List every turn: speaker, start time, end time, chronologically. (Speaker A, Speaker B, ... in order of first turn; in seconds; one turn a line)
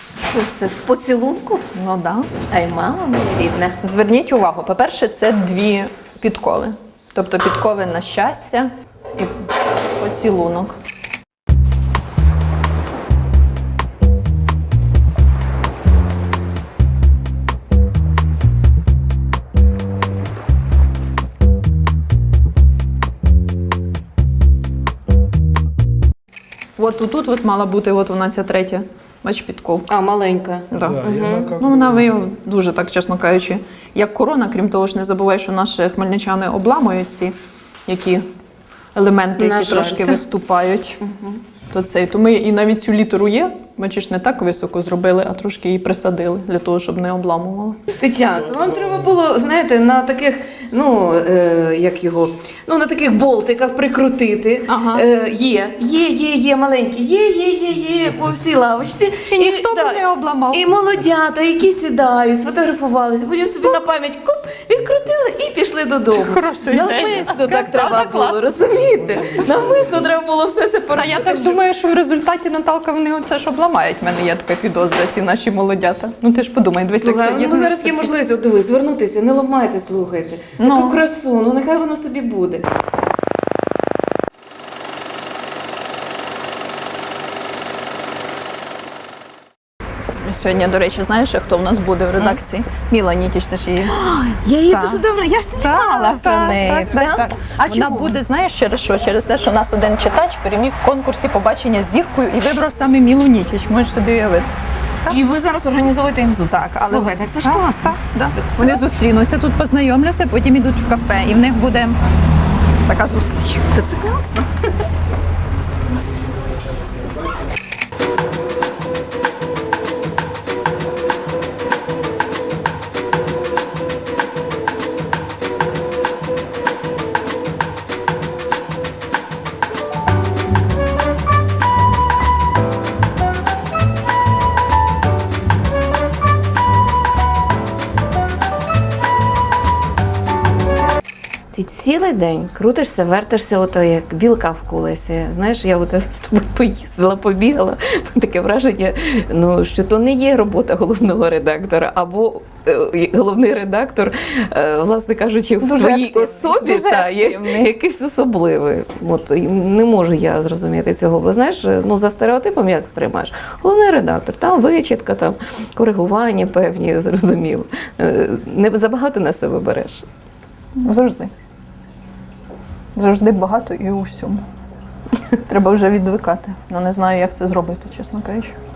Speaker A: 0.2-1.7
Speaker B: 1.8-2.3
Speaker A: 2.5-3.8
Speaker B: 3.8-9.4
Speaker B: 10.0-10.8
Speaker B: 26.8-29.9
Speaker A: 29.9-31.6
Speaker B: 30.7-38.3
Speaker B: 39.0-41.0
Speaker A: 39.4-40.2
Speaker A: 41.0-41.4
Speaker B: 41.7-47.8
Speaker A: 48.0-71.6
Speaker B: 54.7-55.0
Speaker B: 59.3-60.7
Speaker B: 66.1-68.5
Speaker B: 70.9-78.1
Speaker A: 77.0-82.7
Speaker B: 80.6-81.0
Speaker B: 90.2-93.9
Speaker A: 93.9-98.2
Speaker B: 94.7-95.0
Speaker B: 95.6-104.5
Speaker A: 105.1-108.8
Speaker B: 106.5-112.0
Speaker B: 112.8-113.7
Speaker A: 113.7-114.5
Speaker A: 141.5-170.1
Speaker B: 155.6-157.7
Speaker B: 170.8-171.3
Speaker B: 172.9-174.4
Speaker B: 175.5-178.6